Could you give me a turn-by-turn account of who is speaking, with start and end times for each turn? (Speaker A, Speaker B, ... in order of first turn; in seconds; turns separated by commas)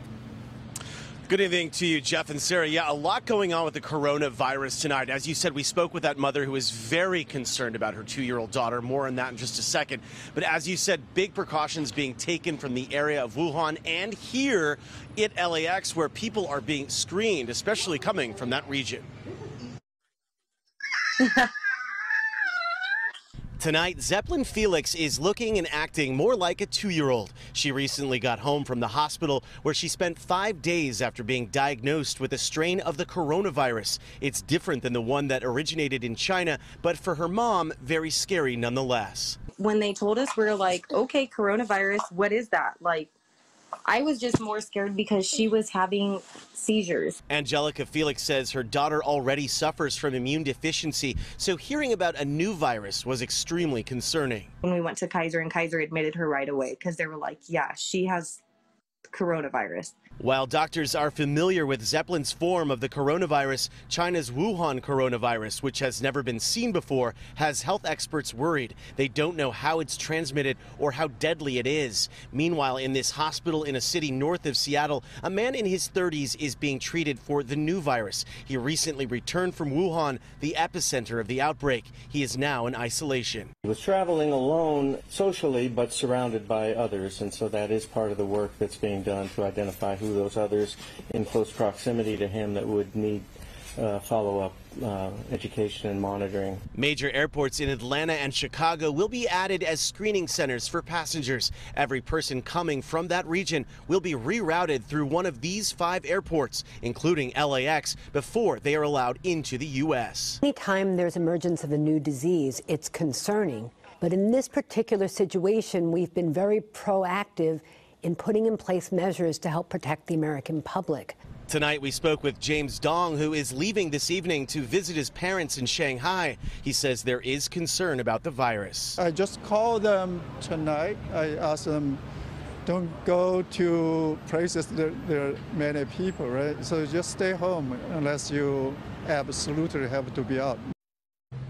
Speaker A: 1.3-19.1, Speaker A: 23.6-39.4, Speaker B: 39.6-43.1, Speaker B: 43.8-47.2, Speaker A: 47.3-54.5, Speaker B: 54.6-58.4, Speaker B: 59.1-59.9, Speaker A: 60.2-83.5, Speaker C: 83.6-96.6, Speaker A: 96.7-110.4, Speaker D: 110.4-121.2, Speaker A: 121.5-129.0, Speaker E: 129.0-132.0, Speaker E: 132.7-140.6